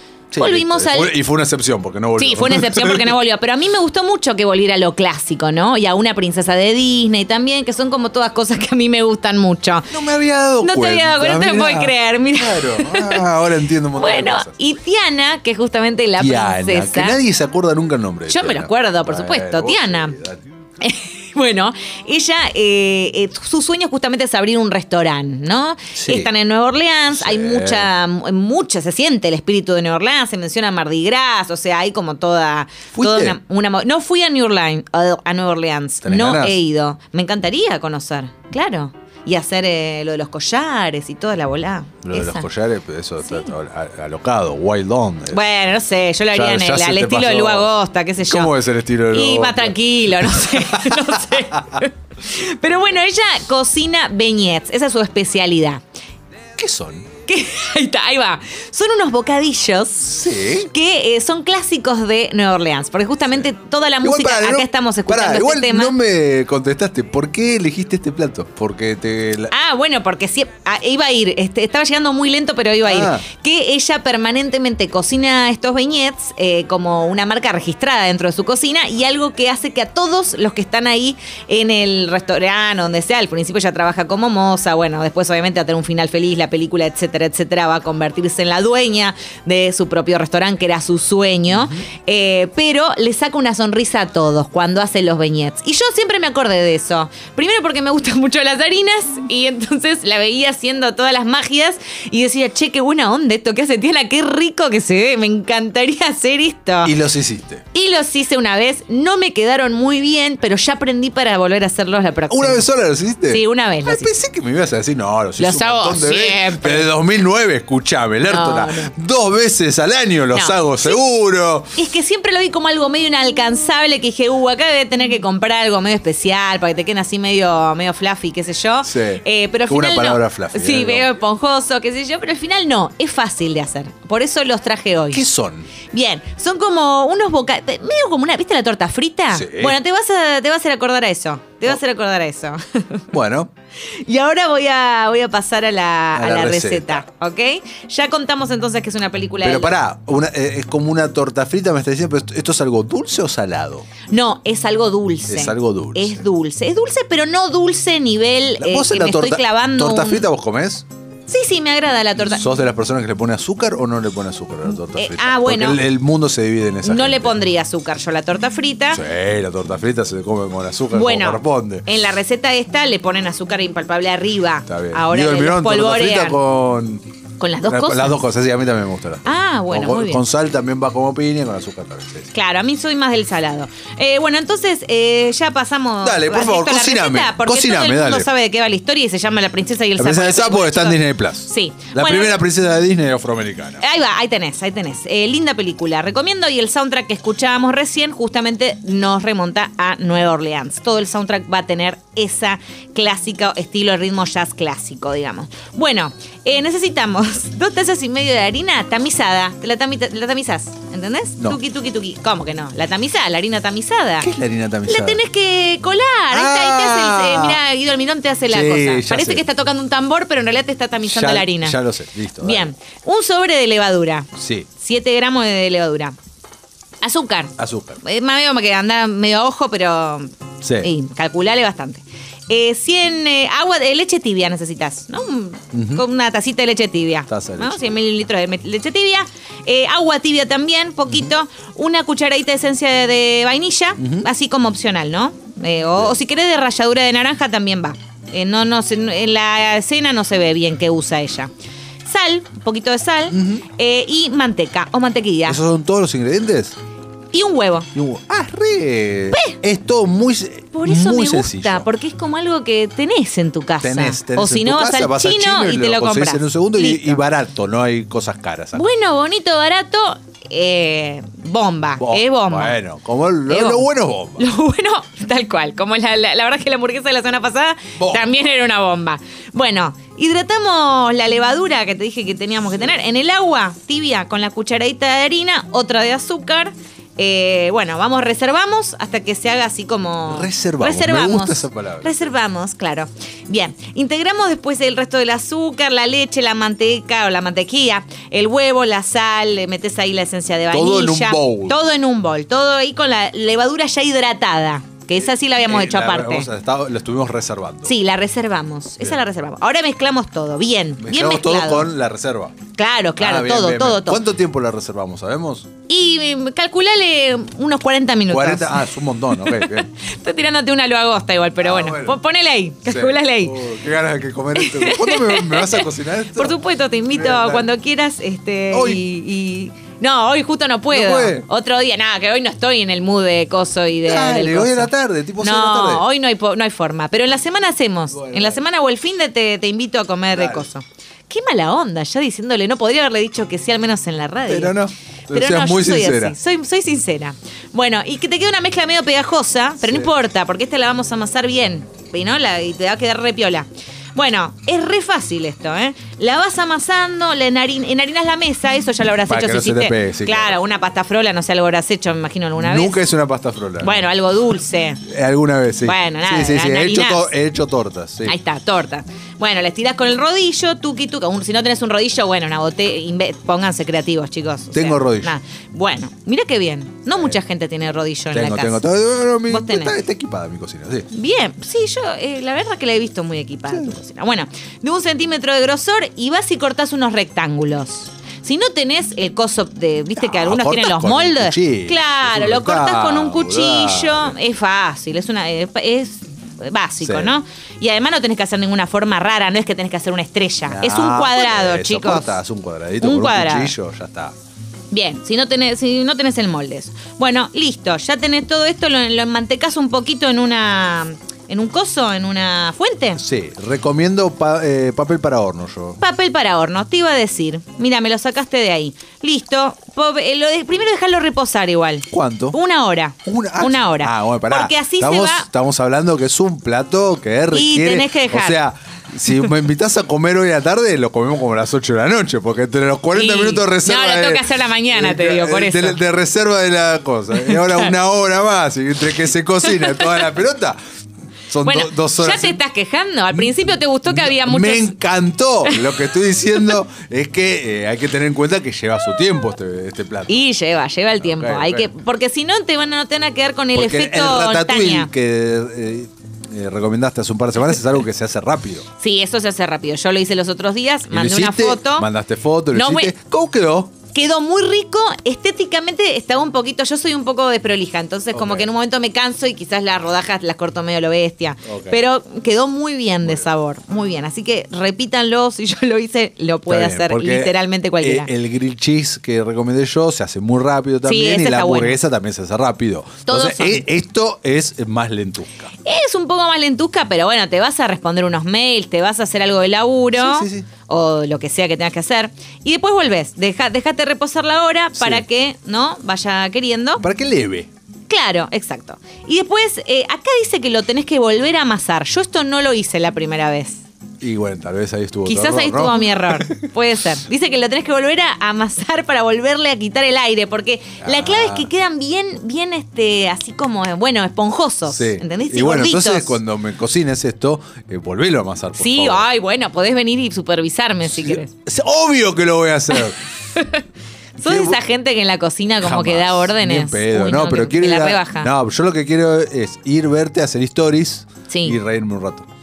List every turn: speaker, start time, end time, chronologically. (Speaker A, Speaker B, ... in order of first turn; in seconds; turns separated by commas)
Speaker A: 0.3-3.2, Speaker B: 0.4-1.1, Speaker B: 2.2-9.9, Speaker A: 9.9-14.5, Speaker B: 10.6-13.2, Speaker B: 13.9-17.2, Speaker A: 16.2-20.4, Speaker B: 18.3-20.1, Speaker B: 20.8-42.5, Speaker A: 25.9-26.3, Speaker A: 27.1-27.9, Speaker A: 32.9-33.4, Speaker A: 36.0-36.6, Speaker A: 42.0-45.4, Speaker B: 43.2-43.5, Speaker B: 45.3-48.5, Speaker A: 46.3-47.7, Speaker A: 48.2-51.6, Speaker B: 49.1-55.8, Speaker A: 56.6-57.1, Speaker B: 57.3-65.9, Speaker A: 60.0-60.7, Speaker A: 64.0-69.5, Speaker B: 69.5-106.9, Speaker A: 72.8-73.2, Speaker A: 106.8-107.6, Speaker B: 107.7-112.6, Speaker A: 112.3-121.8, Speaker B: 113.3-114.1, Speaker B: 115.4-116.9, Speaker B: 118.2-118.9, Speaker B: 120.3-121.0, Speaker B: 121.8-135.2, Speaker A: 128.8-131.1, Speaker A: 135.1-135.7, Speaker B: 135.9-143.1, Speaker A: 139.3-139.8, Speaker A: 143.1-143.5, Speaker B: 144.0-149.8, Speaker A: 146.1-147.0, Speaker A: 149.4-153.9, Speaker B: 154.1-160.3, Speaker A: 155.3-156.2, Speaker A: 158.6-160.8, Speaker B: 161.3-162.4, Speaker A: 162.2-167.4, Speaker B: 164.8-165.8, Speaker B: 166.8-169.0, Speaker A: 168.9-171.8, Speaker B: 170.9-176.4, Speaker A: 174.7-177.0, Speaker B: 177.4-178.2, Speaker A: 177.6-182.3, Speaker B: 179.2-180.2, Speaker B: 182.3-192.4, Speaker A: 186.0-188.3, Speaker A: 190.0-193.8, Speaker B: 193.8-214.3, Speaker A: 214.2-215.2, Speaker B: 214.9-221.8, Speaker A: 216.3-217.6, Speaker A: 218.5-219.4, Speaker A: 221.0-222.7, Speaker B: 222.4-226.1, Speaker A: 224.4-224.7, Speaker B: 227.0-251.5, Speaker A: 227.6-228.0, Speaker A: 230.6-230.9, Speaker A: 235.7-236.0, Speaker A: 237.3-237.9, Speaker A: 244.0-244.3, Speaker B: 252.0-255.6, Speaker A: 253.3-253.6, Speaker A: 255.5-256.8, Speaker B: 257.3-257.9, Speaker A: 257.9-261.9, Speaker B: 259.3-259.6, Speaker B: 260.7-267.2, Speaker A: 263.8-268.8, Speaker B: 268.8-272.8, Speaker A: 272.0-274.5, Speaker B: 273.5-273.9, Speaker B: 274.4-306.5, Speaker A: 277.9-278.3, Speaker A: 290.3-292.2, Speaker A: 300.7-301.8, Speaker A: 305.2-307.9, Speaker B: 307.8-311.9, Speaker A: 311.0-312.6, Speaker B: 312.8-314.2, Speaker A: 313.2-315.7, Speaker B: 315.9-323.6, Speaker A: 318.3-319.9, Speaker A: 321.6-322.2, Speaker A: 322.9-327.7, Speaker B: 324.6-344.8, Speaker A: 328.7-329.0, Speaker A: 330.9-331.4, Speaker A: 334.1-336.1, Speaker A: 338.1-338.6, Speaker A: 340.3-340.7, Speaker A: 344.4-346.4, Speaker B: 345.3-363.0, Speaker A: 349.8-350.1, Speaker A: 359.3-360.6, Speaker A: 362.6-364.0, Speaker B: 363.8-365.0, Speaker A: 365.1-368.3, Speaker B: 365.8-367.3, Speaker B: 368.2-378.8, Speaker A: 374.7-375.3, Speaker A: 378.3-381.1, Speaker B: 379.5-380.0, Speaker B: 381.1-402.4, Speaker A: 390.2-394.4, Speaker A: 397.0-397.3, Speaker A: 400.7-404.3, Speaker B: 403.0-403.7, Speaker B: 404.9-413.2, Speaker A: 413.2-416.0, Speaker B: 416.0-425.5, Speaker A: 422.1-422.6, Speaker A: 423.2-440.8, Speaker B: 427.5-428.6, Speaker B: 433.1-436.0, Speaker B: 437.3-437.9, Speaker B: 439.6-440.2, Speaker A: 441.5-442.6, Speaker B: 441.6-444.9, Speaker A: 444.1-450.4, Speaker B: 445.6-445.9, Speaker B: 450.3-455.1, Speaker A: 451.2-451.9, Speaker A: 453.7-458.9, Speaker B: 459.0-462.1, Speaker A: 461.1-463.9, Speaker B: 462.7-463.1, Speaker B: 464.1-478.3, Speaker A: 468.3-468.7, Speaker A: 471.6-472.0, Speaker A: 476.7-485.7, Speaker B: 481.1-482.0, Speaker B: 483.3-483.9, Speaker B: 485.8-497.0, Speaker A: 490.1-490.7, Speaker A: 494.9-495.2, Speaker A: 497.0-497.7, Speaker B: 498.1-503.8, Speaker A: 504.2-506.7, Speaker B: 505.2-516.4, Speaker A: 511.0-511.7, Speaker A: 514.9-519.2, Speaker B: 518.7-521.5, Speaker A: 521.0-523.2, Speaker B: 523.5-523.8, Speaker B: 524.4-528.5, Speaker A: 524.4-524.8, Speaker A: 525.8-532.5, Speaker B: 531.5-531.8